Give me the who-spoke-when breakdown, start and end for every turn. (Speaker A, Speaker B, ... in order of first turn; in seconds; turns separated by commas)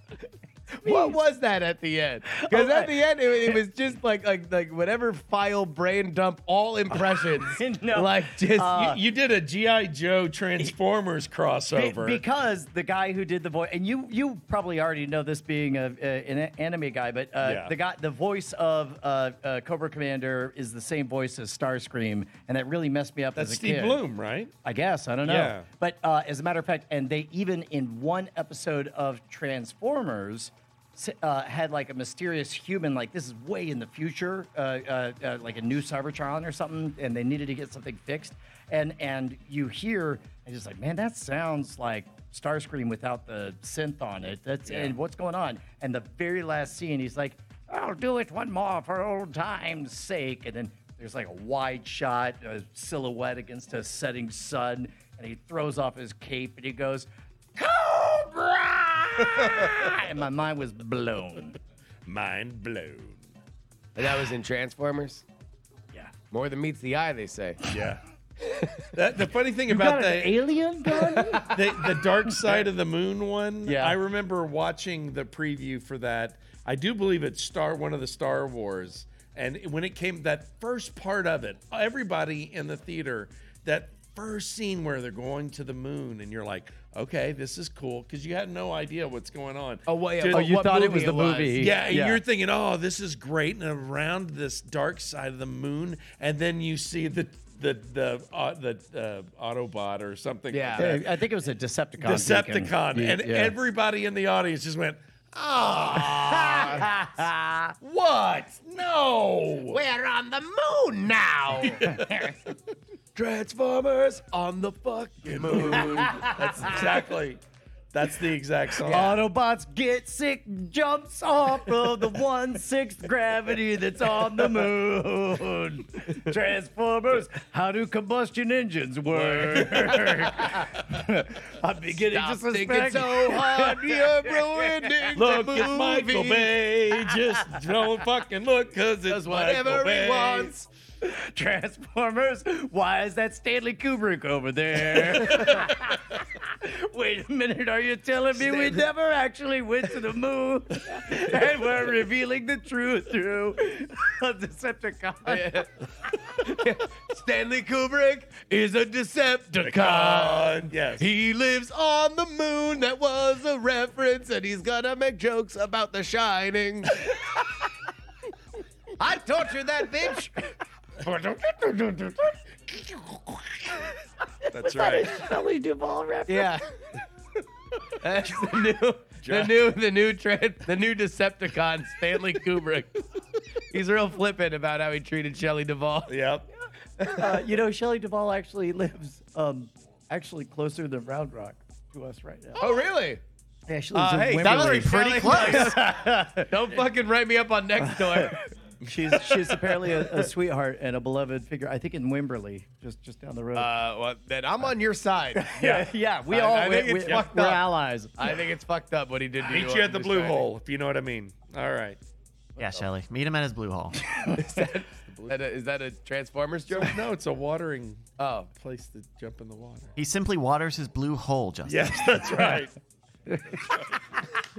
Speaker A: 0.8-1.2, Speaker B: 0.8-8.8, Speaker A: 2.3-3.6, Speaker A: 7.4-9.0, Speaker C: 8.7-12.2, Speaker A: 11.7-24.0, Speaker C: 17.4-17.8, Speaker C: 23.4-24.5, Speaker A: 24.6-61.6, Speaker C: 25.2-25.7, Speaker C: 62.1-63.3, Speaker B: 64.0-65.2, Speaker B: 66.3-67.6, Speaker C: 67.7-68.0, Speaker C: 68.9-70.4, Speaker A: 69.7-71.6, Speaker B: 71.3-71.6, Speaker C: 71.5-90.5, Speaker A: 73.7-74.0, Speaker B: 89.9-91.7, Speaker A: 90.2-92.2, Speaker C: 91.5-101.0, Speaker B: 100.5-101.0, Speaker A: 100.8-103.6, Speaker C: 102.0-106.9, Speaker A: 106.1-107.7, Speaker C: 107.8-109.8, Speaker B: 109.7-111.9, Speaker C: 111.8-112.3, Speaker A: 111.9-112.3, Speaker B: 113.2-116.3, Speaker C: 115.8-117.4, Speaker C: 117.9-119.2, Speaker B: 118.8-119.2, Speaker A: 118.9-135.9, Speaker C: 129.1-130.0, Speaker B: 132.1-136.6, Speaker C: 135.2-140.5, Speaker B: 139.1-140.7, Speaker A: 141.0-155.7, Speaker B: 148.3-148.9, Speaker B: 155.3-155.7, Speaker B: 156.4-167.1, Speaker C: 159.6-161.1, Speaker B: 169.0-170.4, Speaker B: 171.1-173.4, Speaker A: 174.4-176.6, Speaker C: 174.5-175.1, Speaker B: 176.3-176.6, Speaker B: 178.0-183.1, Speaker C: 179.2-179.6, Speaker B: 183.7-186.2, Speaker C: 186.1-186.5, Speaker B: 187.0-187.4, Speaker A: 187.2-192.6, Speaker B: 192.6-193.2, Speaker A: 193.7-196.5, Speaker B: 193.9-195.9, Speaker D: 194.4-195.8, Speaker B: 196.5-198.4, Speaker A: 197.8-203.7, Speaker C: 198.9-199.4, Speaker B: 203.5-207.7, Speaker A: 205.3-208.3, Speaker C: 207.0-207.3, Speaker B: 208.2-210.5, Speaker C: 209.4-212.0, Speaker B: 212.6-212.8, Speaker D: 212.6-214.0, Speaker A: 214.1-214.4, Speaker B: 214.3-217.0, Speaker C: 216.7-219.9, Speaker B: 218.2-218.5, Speaker D: 220.0-222.2, Speaker C: 221.7-222.8, Speaker A: 223.3-224.2